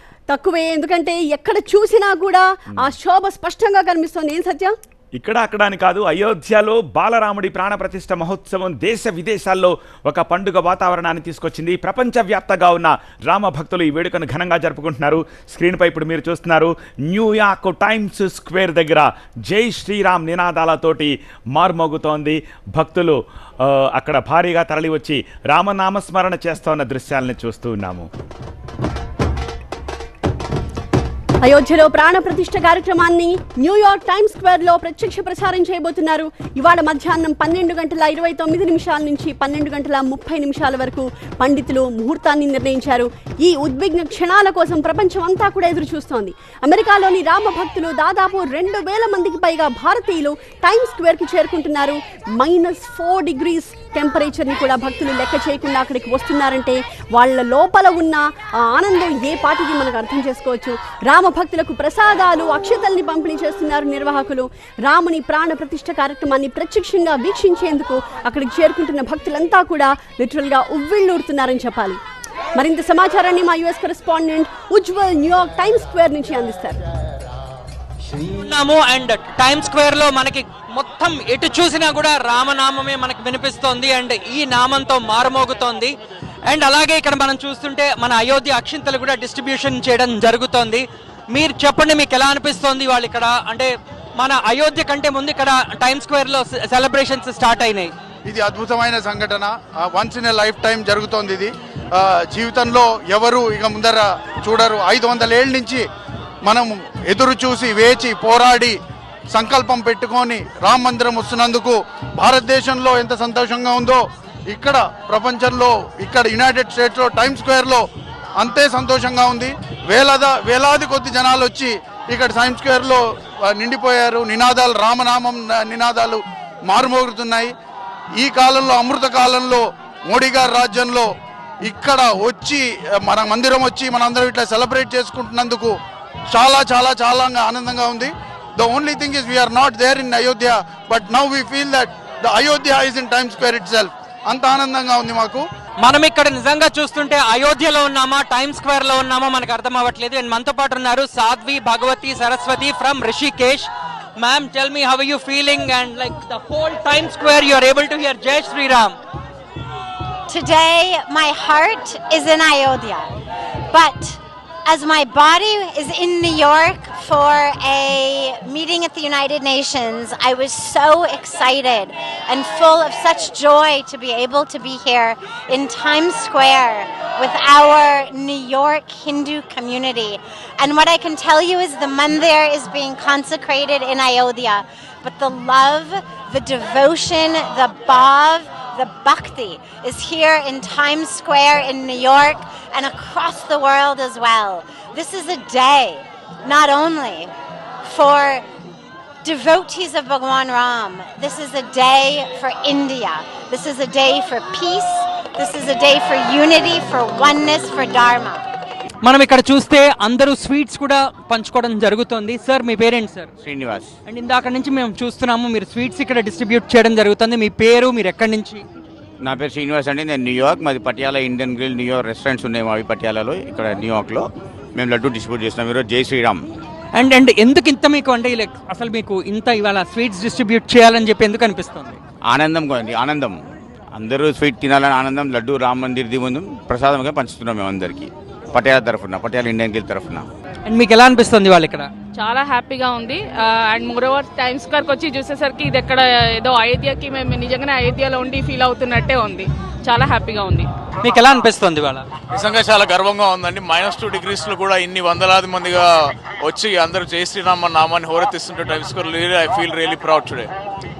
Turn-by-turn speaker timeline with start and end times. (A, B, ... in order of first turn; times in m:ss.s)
0:00.3-0:04.7 A
0:05.2-0:28.1 B
0:31.4-1:12.0 A
1:12.6-1:16.8 A
1:18.2-1:25.9 C
1:26.5-1:37.9 C
1:38.3-1:45.8 D
1:46.4-1:48.8 D
1:49.3-1:57.8 D
1:58.4-2:07.5 D
2:08.2-2:11.1 D
2:11.6-2:15.7 D
2:16.3-2:25.4 D
2:25.8-2:33.7 C
2:34.2-2:39.0 C
2:40.3-2:43.1 E
2:43.7-3:17.3 E
3:17.8-3:18.4 E
3:19.2-3:28.4 E
3:29.0-3:33.3 C
3:33.4-3:33.9 F
3:34.1-3:38.6 C
3:39.2-3:46.4 F
3:46.9-3:52.0 C
3:52.3-3:53.4 F
3:53.9-4:00.2 F
4:00.7-4:01.9 C
4:02.1-4:10.7 G
4:11.0-4:12.0 C
4:12.3-4:20.5 H